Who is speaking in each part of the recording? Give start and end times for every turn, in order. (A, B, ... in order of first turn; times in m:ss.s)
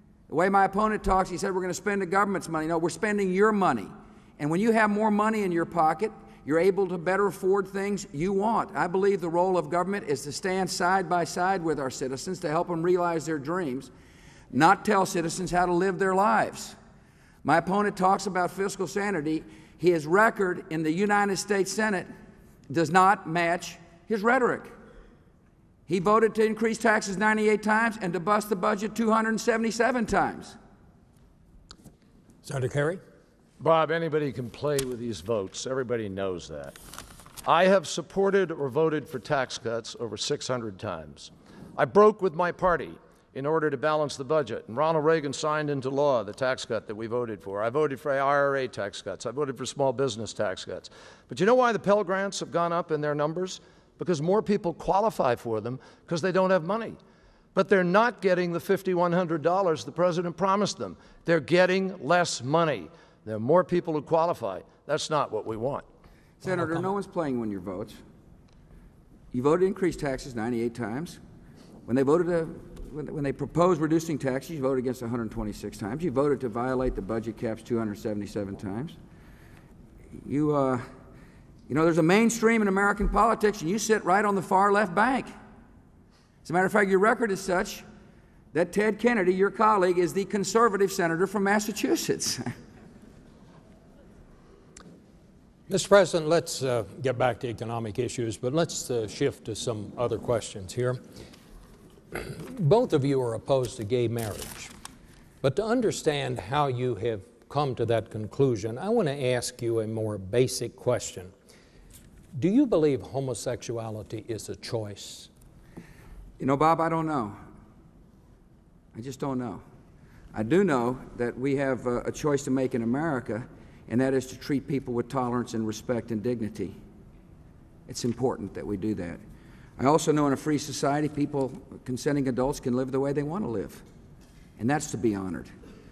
0:00.3-0:13.9 A
0:14.5-0:16.8 A
0:17.4-0:22.1 A
0:22.7-0:24.7 A
0:25.9-0:30.6 A
0:32.4-0:33.0 B
0:33.6-0:36.8 C
0:37.4-0:57.0 C
0:57.6-1:05.8 C
1:06.4-1:08.0 A
1:09.3-1:11.2 A
1:11.9-1:19.0 A
1:20.2-1:20.8 A
1:21.7-1:25.3 A
1:26.4-1:27.8 A
1:28.5-1:32.4 A
1:35.7-1:41.0 B
1:42.1-1:44.7 B
1:45.4-1:51.3 B
1:52.4-1:55.3 B
1:56.4-1:57.4 A
1:58.9-1:59.6 A
2:00.3-2:06.8 A
2:07.9-2:09.2 A
2:09.8-2:13.8 A
2:14.6-2:15.5 A